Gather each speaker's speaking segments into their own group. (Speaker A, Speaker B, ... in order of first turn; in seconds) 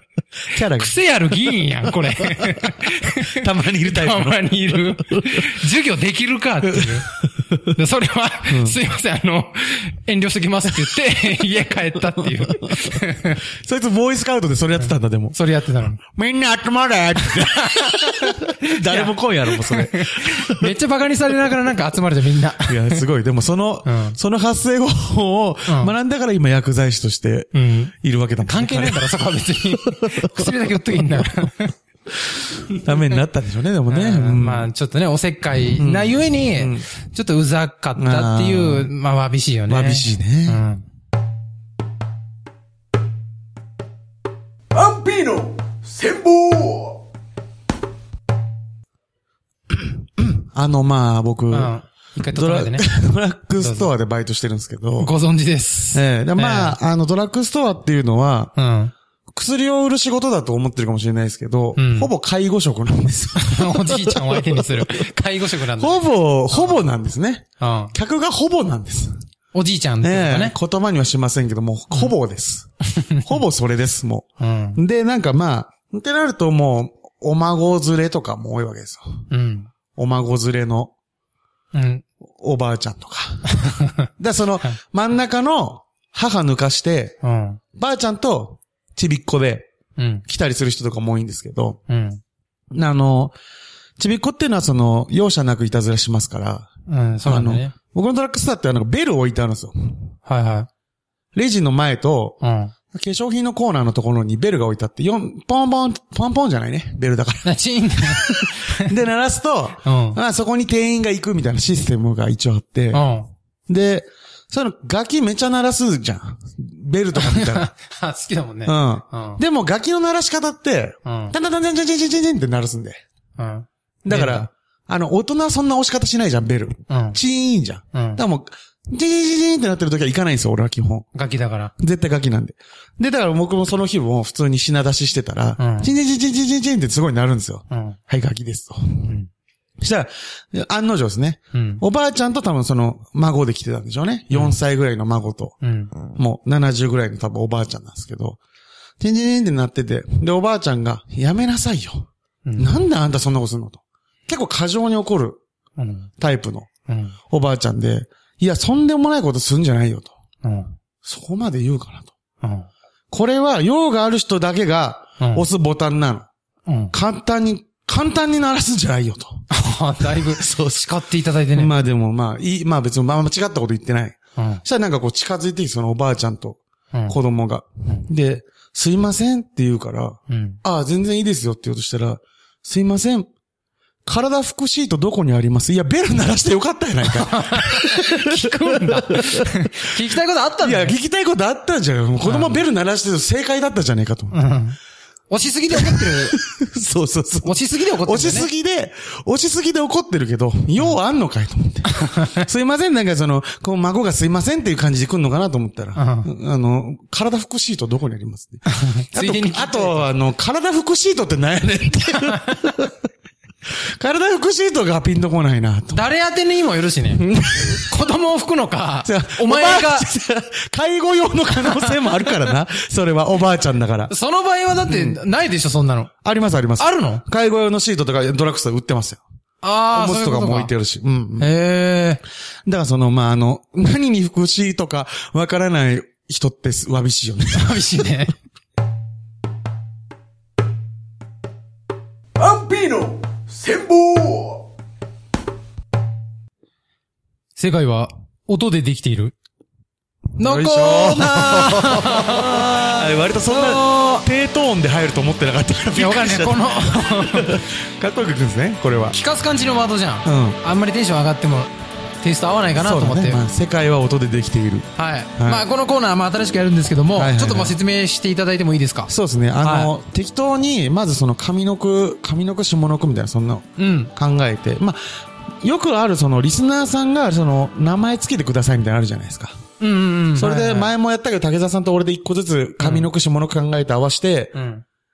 Speaker A: 0.5-0.9, 2.2-5.6, 6.6-7.8, 8.5-8.8, 12.1-15.4, 16.1-20.7, 22.6-29.1, 29.9-30.6, 32.7-34.7, 35.8-36.9, 38.0-38.9, 39.7-40.6, 49.7-51.8, 52.3-55.1, 55.9-58.5, 59.3-65.0, 65.8-69.2, 70.0-72.7, 73.2-79.2, 79.9-80.9, 82.4-83.5, 84.2-87.2, 87.8-89.7, 90.2-91.8, 92.7-93.3, 94.0-96.7, 97.2-100.1, 101.3-102.4, 102.9-113.0, 113.7-117.7, 118.7-123.0, 124.0-131.1, 131.8-139.1, 139.8-145.6, 146.1-148.4, 149.0-152.1, 152.6-155.4, 156.2-156.7, 157.3-160.1, 161.0-162.1, 163.1-166.3, 166.9-169.4, 170.2-170.9, 171.5-183.3, 184.1-190.0, 190.6-194.4, 195.7-212.9, 213.8-216.0, 217.2-217.8, 219.0-224.1, 224.9-225.2, 226.2-229.2, 229.9-231.5, 232.6-238.1, 250.4-259.1, 260.2-260.6, 262.8-265.6, 267.1-267.8, 269.1-279.6, 280.4-284.6
Speaker B: 0.8-7.1, 7.7-13.4, 15.3-16.0, 17.3-23.0, 23.9-24.2, 25.7-25.9, 27.5-31.7, 33.9-40.8, 51.5-52.9, 53.6-53.9, 55.0-56.8, 58.5-58.9, 61.8-62.1, 63.4-66.8, 67.6-67.9, 69.5-70.5, 72.9-73.3, 74.4-74.8, 79.3-79.7, 81.7-82.0, 83.5-84.1, 87.2-87.6, 90.0-90.2, 91.9-92.2, 96.9-97.8, 100.2-100.7, 102.4-102.7, 107.4-108.9, 109.8-110.2, 112.9-113.3, 117.1-119.4, 121.0-121.3, 123.4-124.5, 126.9-127.2, 127.9-128.2, 131.1-131.7, 135.6-135.9, 137.7-138.0, 139.0-139.3, 141.5-141.8, 145.6-145.9, 152.5-152.8, 155.8-156.1, 156.9-157.1, 160.4-160.8, 162.4-162.7, 165.2-165.4, 166.7-166.9, 169.5-171.7, 174.4-174.6, 180.3-180.6, 187.1-190.9, 192.2-192.6, 194.3-194.8, 195.3-196.4, 197.4-198.5, 201.9-202.4, 206.0-206.3, 208.7-210.1, 212.2-212.6, 215.9-220.1, 221.6-222.3, 224.1-226.1, 226.8-227.2, 229.6-230.7, 231.4-232.2, 237.5-238.3, 247.6-249.3, 250.4-254.3, 255.9-257.6, 259.1-261.7, 262.2-263.4, 265.0-269.1, 269.6-269.9, 273.8-274.1, 279.8-280.9, 282.8-283.1, 284.5-284.8
Speaker C: 44.7-47.0, 242.4-244.7